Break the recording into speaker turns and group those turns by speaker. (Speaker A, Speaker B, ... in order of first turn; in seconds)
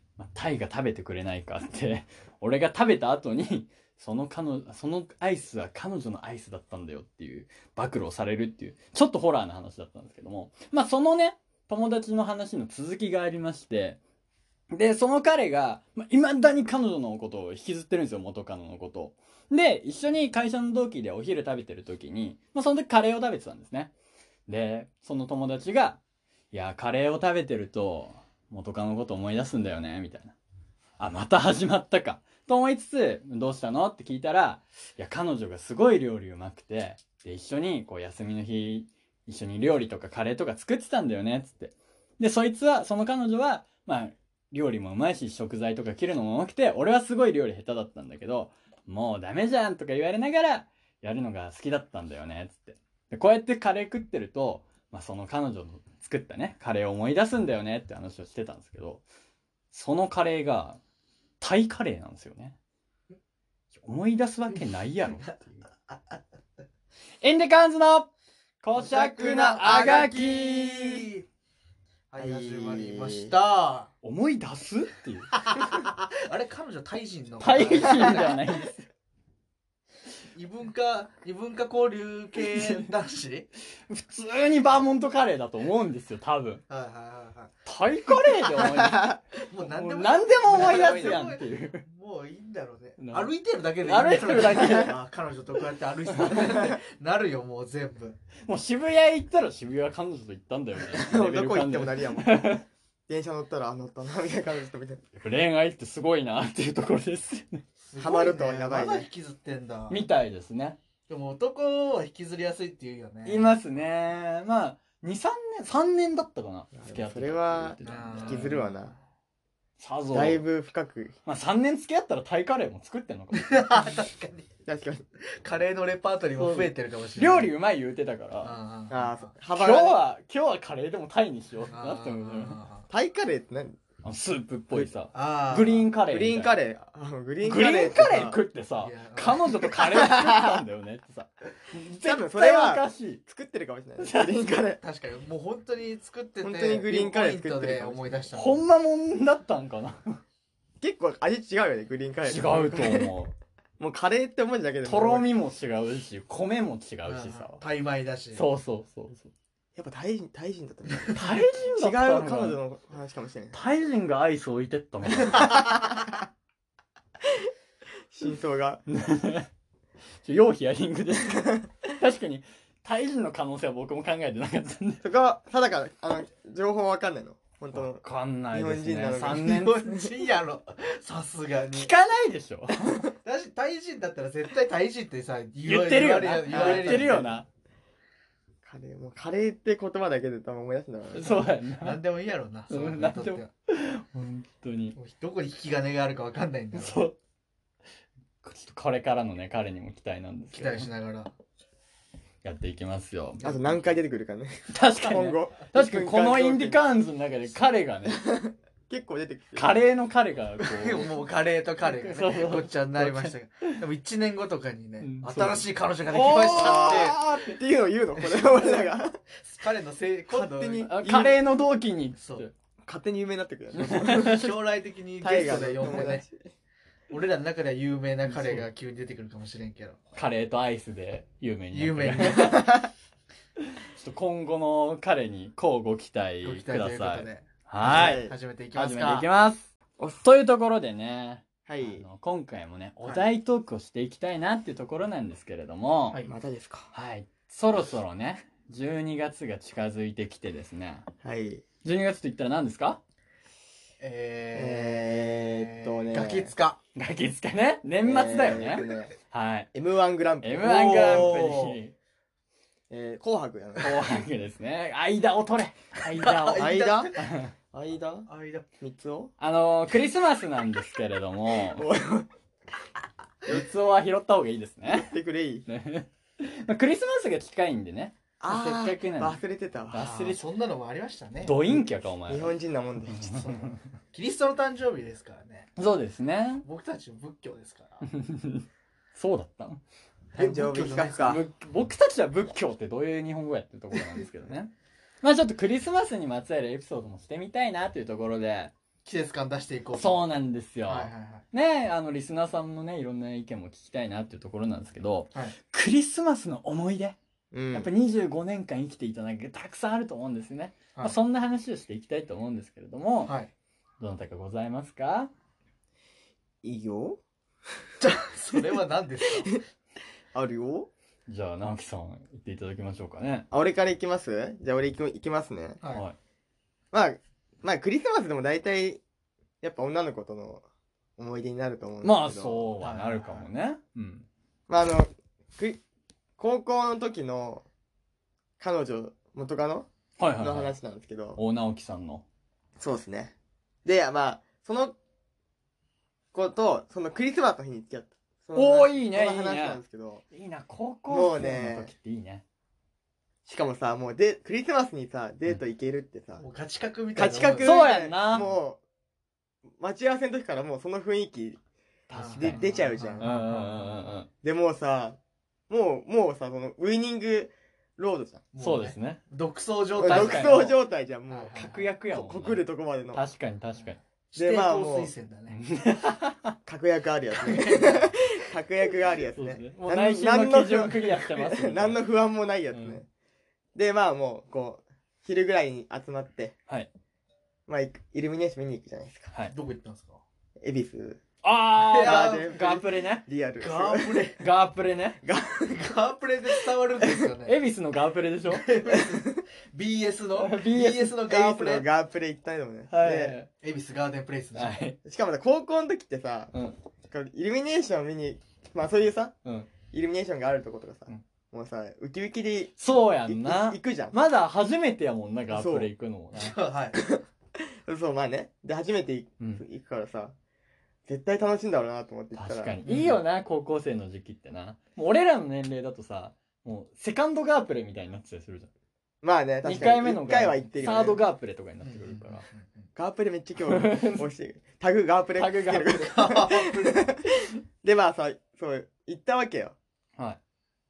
Speaker A: 0.2-14.0, 14.7-23.9, 24.5-26.0, 26.5-30.4, 31.0-59.0, 59.7-60.8, 61.4-62.6, 63.8-65.6, 67.2-68.1, 68.6-71.0, 74.0-75.3, 77.4-78.9, 82.5-82.9, 83.9-86.6, 87.7-91.8, 93.0-93.3, 93.8-94.9, 96.1-96.5, 98.5-102.7, 105.2-107.6, 109.9-110.8, 113.2-118.5, 119.8-120.4, 121.3-123.5, 126.4-128.6, 129.5-132.6, 134.0-136.6, 137.4-143.2, 144.0-144.4, 148.3-150.2, 152.3-153.3, 154.8-157.6, 158.3-159.3, 161.1-162.6, 163.5-165.7, 168.9-169.5, 170.2-175.1, 177.7-179.8, 181.7-183.1, 185.6-187.5, 191.1-192.0, 192.7-195.0, 196.7-197.2, 198.4-200.9, 202.4-203.9, 204.7-208.2, 209.6-211.1, 211.8-213.8, 215.0-217.6, 220.8-222.5, 223.7-224.4, 228.3-228.7, 230.2-232.6, 234.0-246.2, 246.9-251.1, 251.8-253.0, 257.0-259.7, 260.4-261.9, 263.8-267.5, 269.4-271.9, 273.5-275.1, 275.7-279.4, 279.9-280.4, 281.4-282.6, 283.1-283.7, 285.8-286.7, 288.0-289.8, 291.2-298.7, 299.9-307.2, 307.7-313.3, 314.0-315.3, 321.3-323.5, 325.9-326.2, 332.0-334.3, 340.2-340.8, 341.4-342.2, 348.6-352.4, 357.6-358.5, 362.1-364.3, 368.6-369.2, 370.0-370.8, 371.6-374.0, 375.5-376.6, 379.3-382.0, 382.7-383.0, 391.4-393.2, 394.4-395.2, 397.4-398.7, 400.4-401.2, 402.9-403.5, 404.6-405.0, 406.5-406.8, 412.8-416.6, 422.4-428.7, 429.6-432.4, 433.6-434.3, 435.4-436.0
Speaker B: 68.8-71.1, 72.2-73.3, 88.5-89.2, 100.8-102.5, 103.1-105.0, 108.0-109.1, 116.7-118.9, 120.1-121.2, 124.7-125.0, 128.9-130.0, 132.9-133.8, 136.1-138.4, 139.7-140.6, 142.0-144.8, 146.4-148.3, 150.8-153.1, 153.8-155.3, 159.8-163.6, 165.4-166.1, 168.1-168.8, 175.0-180.1, 186.5-187.4, 188.6-191.3, 203.4-206.9, 208.1-209.8, 216.5-219.2, 220.3-221.4, 222.8-224.5, 225.2-226.5, 232.2-232.9, 237.8-238.3, 241.7-242.0, 246.3-246.9, 251.2-251.6, 254.5-256.5, 258.0-259.1, 259.7-261.4, 262.9-263.9, 266.6-267.2, 267.7-268.3, 268.8-269.3, 271.6-272.3, 274.9-275.7, 278.4-280.1, 281.7-283.6, 290.4-291.4, 307.5-307.9, 316.6-317.2, 320.3-320.9, 323.5-325.8, 326.9-329.0, 329.6-330.6, 331.2-332.7, 334.7-335.8, 336.4-337.6, 338.6-339.9, 340.4-341.4, 342.8-343.3, 343.9-345.0, 346.3-350.2, 351.1-351.9, 353.5-356.4, 357.2-358.8, 359.8-361.6, 362.4-363.2, 364.4-365.2, 365.7-368.4, 370.0-373.2, 374.4-375.1, 376.7-383.1, 383.8-386.6, 387.7-389.3, 390.6-391.2, 392.0-394.3, 395.2-395.9, 398.9-399.4, 401.2-403.4, 405.0-406.5, 407.1-409.4, 409.9-414.2, 415.5-415.9, 416.9-420.4, 421.1-422.8, 429.2-431.2, 433.0-437.2, 437.8-439.8
Speaker C: 72.1-73.9, 75.4-78.4, 80.3-83.5, 86.7-87.5, 89.4-98.2, 107.8-110.0, 111.1-113.6, 117.8-118.9, 123.3-124.5, 125.4-127.5, 128.4-129.3, 131.7-132.8, 135.1-135.9, 138.8-139.4, 144.8-148.7, 157.1-158.4, 179.2-181.9, 183.2-187.3, 191.8-193.5, 195.0-197.1, 200.5-201.3, 210.6-217.2, 218.2-218.9, 219.4-220.9, 222.2-222.4, 224.1-226.2, 227.1-230.0, 231.7-232.7, 236.4-239.3, 246.1-246.4, 254.0-256.8, 260.6-261.8, 266.1-267.2, 268.3-268.7, 280.0-281.6, 283.4-285.7, 286.6-288.1, 290.3-291.4, 299.1-300.3, 300.9-301.4, 313.3-313.5, 318.0-319.6, 332.8-333.5, 356.4-357.8, 362.1-364.2, 368.5-370.6, 371.3-371.8, 374.3-375.6, 377.4-378.1, 389.5-390.2, 391.8-392.5, 393.6-394.4, 395.7-397.6, 398.5-401.9, 403.6-404.8, 416.3-417.0, 422.9-423.2, 431.8-432.9, 435.8-437.1